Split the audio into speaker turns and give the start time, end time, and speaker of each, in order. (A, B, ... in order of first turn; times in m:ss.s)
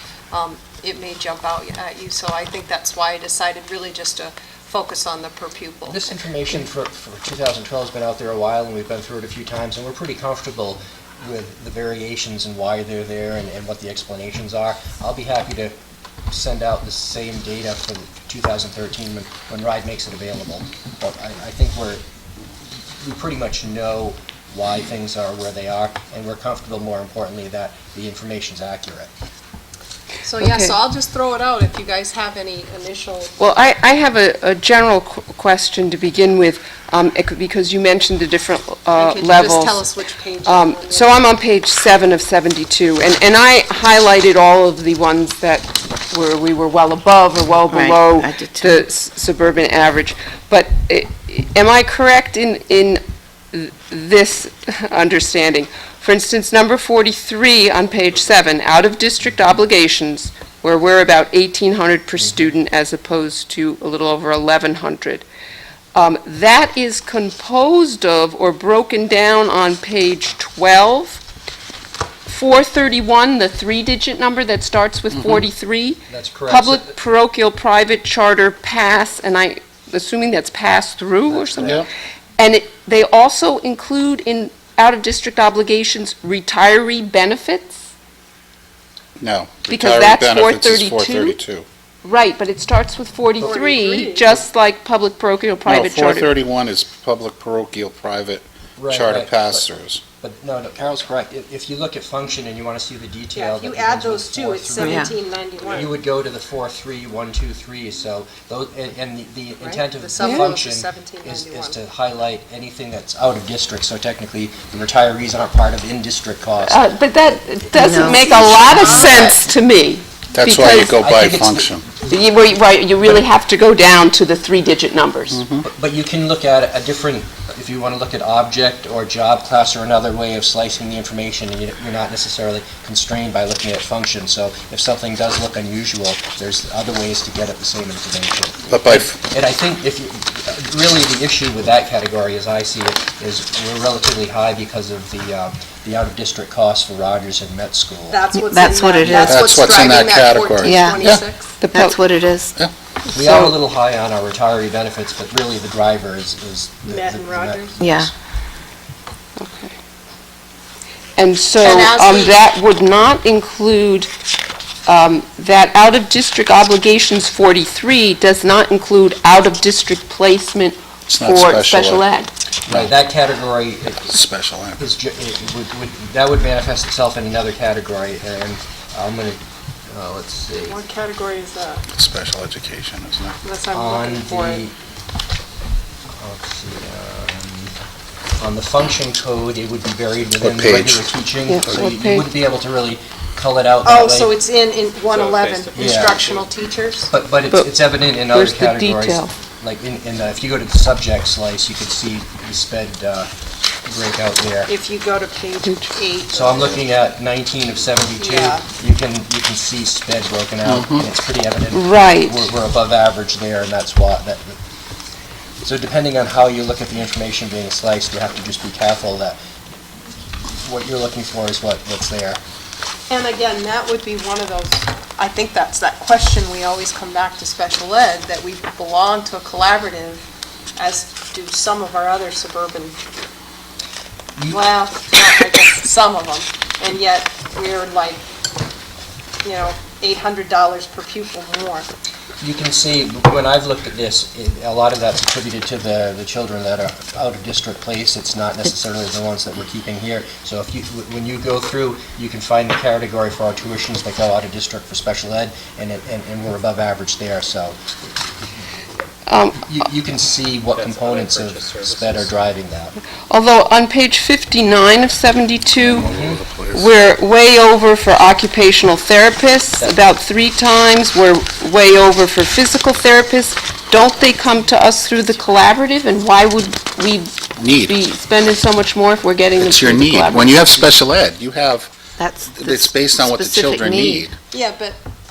0:00.3-0:06.1 A
0:05.8-0:15.7 B
0:16.3-0:22.0 B
0:23.0-0:29.1 B
0:30.2-0:33.3 A
0:30.4-0:30.7 C
0:33.4-0:39.8 C
0:39.0-0:41.2 A
0:40.4-0:53.0 C
0:47.7-0:48.8 D
0:53.5-1:05.3 C
1:06.0-1:11.2 C
1:12.3-1:21.8 C
1:15.2-1:15.4 E
1:16.1-1:16.9 B
1:21.3-1:21.9 B
1:21.6-1:21.9 E
1:22.4-1:27.8 C
1:29.2-1:31.7 E
1:29.7-1:31.4 C
1:32.0-1:36.3 C
1:33.4-1:34.3 A
1:35.6-1:40.0 E
1:38.8-1:39.6 B
1:40.2-1:45.1 B
1:43.3-1:46.0 A
1:44.8-1:45.1 D
1:45.7-1:56.9 B
1:49.6-1:51.8 A
1:50.2-1:50.5 C
1:56.7-2:01.0 C
1:57.8-1:58.3 D
1:58.0-1:59.4 A
2:00.3-2:01.9 E
2:00.9-2:01.7 B
2:02.0-2:05.4 C
2:05.3-2:05.7 E
2:05.6-2:28.2 B
2:18.7-2:19.2 E
2:28.1-2:31.6 A
2:28.3-2:29.5 D
2:29.2-2:31.2 E
2:30.6-2:31.0 D
2:31.6-2:32.0 C
2:31.7-2:32.5 D
2:33.1-2:33.6 C
2:33.1-2:37.8 B
2:36.8-2:37.8 A
2:37.8-2:38.1 D
2:39.4-2:39.7 C
2:41.2-2:44.1 C
2:41.6-2:42.4 A
2:44.9-2:52.3 C
2:51.1-2:52.1 E
2:52.7-2:52.9 E
2:52.7-2:54.2 B
2:54.1-2:54.8 E
2:54.8-2:59.4 B
2:59.9-3:00.8 B
3:00.7-3:01.8 A
3:01.9-3:03.4 E
3:03.4-3:04.6 A
3:03.7-3:04.7 B
3:06.1-3:07.8 B
3:08.4-3:14.3 B
3:10.4-3:11.1 E
3:11.5-3:12.3 C
3:13.8-3:17.1 A
3:15.1-3:16.4 E
3:15.8-3:16.2 B
3:17.1-3:23.3 B
3:18.3-3:19.3 C
3:23.8-3:24.7 B
3:24.7-3:26.8 A
3:26.3-3:34.6 B
3:28.2-3:28.6 A
3:30.7-3:31.1 E
3:31.7-3:32.5 C
3:35.6-3:39.4 B
3:40.5-3:42.4 B
3:43.1-3:50.2 A
3:50.8-3:53.0 A
3:54.5-3:58.2 A
3:59.4-4:01.9 A
4:02.4-4:17.8 B
4:19.3-4:19.7 C
4:19.6-4:22.9 B
4:20.8-4:22.3 E
4:23.3-4:26.1 C
4:25.8-4:26.9 E
4:26.0-4:26.4 B
4:26.7-4:40.9 C
4:37.6-4:38.0 E
4:39.6-4:41.9 E
4:42.2-4:44.3 D
4:42.4-4:44.3 E
4:44.5-4:45.0 A